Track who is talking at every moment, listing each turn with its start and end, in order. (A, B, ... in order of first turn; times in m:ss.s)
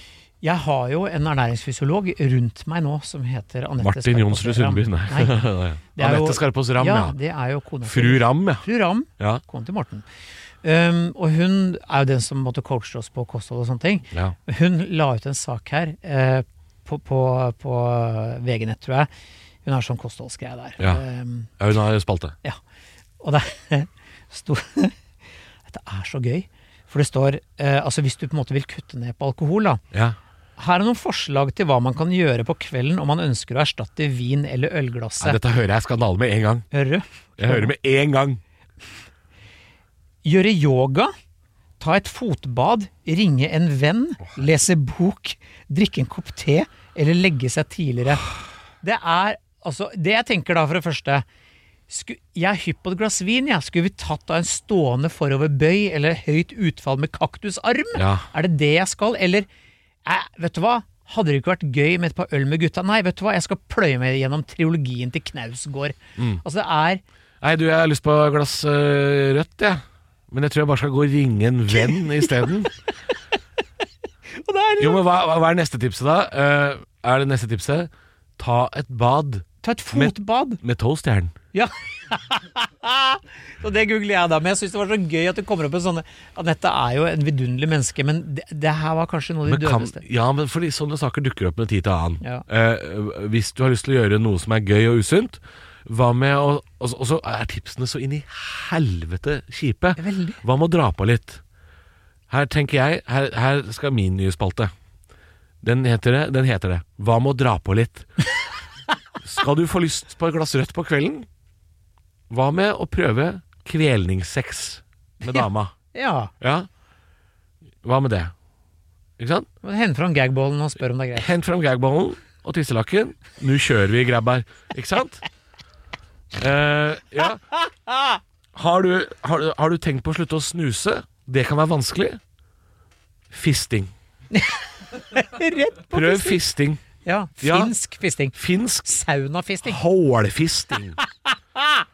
0:00.4-0:05.4 A
0:03.8-0:07.2 B
0:05.9-0:10.1 A
0:07.8-0:08.7 B
0:09.2-0:09.4 B
0:10.6-0:19.1 A
0:19.6-0:21.5 A
0:21.6-0:22.4 B
0:23.2-0:25.0 A
0:25.7-0:29.8 A
0:29.9-0:30.2 B
0:30.6-0:35.4 A
0:35.2-0:36.7 B
0:36.7-0:37.7 A
0:37.4-0:38.4 B
0:40.2-0:41.1 A
0:41.8-0:48.3 A
0:48.8-0:51.2 A
0:51.9-0:59.5 A
0:58.0-0:58.3 B
1:00.0-1:07.0 A
1:06.2-1:06.4 B
1:07.4-1:12.7 B
1:11.8-1:12.6 A
1:14.3-1:15.0 A
1:14.8-1:21.4 B
1:19.6-1:20.6 A
1:21.5-1:30.0 A
1:29.5-1:41.4 B
1:40.0-1:40.4 A
1:42.3-1:44.7 B
1:45.6-1:48.1 B
1:49.2-1:51.3 B
1:52.3-1:55.7 B
1:55.2-1:56.3 A
1:56.4-1:56.7 B
1:57.8-1:58.3 B
1:59.2-1:59.5 B
1:59.6-2:01.3 A
2:01.2-2:05.2 B
2:06.4-2:07.4 B
2:07.9-2:08.2 A
2:08.5-2:12.2 B
2:13.3-2:13.9 B
2:14.3-2:16.4 A
2:15.9-2:16.8 B
2:17.0-2:19.8 A
2:17.4-2:17.7 B
2:18.3-2:18.9 B
2:19.6-2:21.0 B
2:21.6-2:21.8 A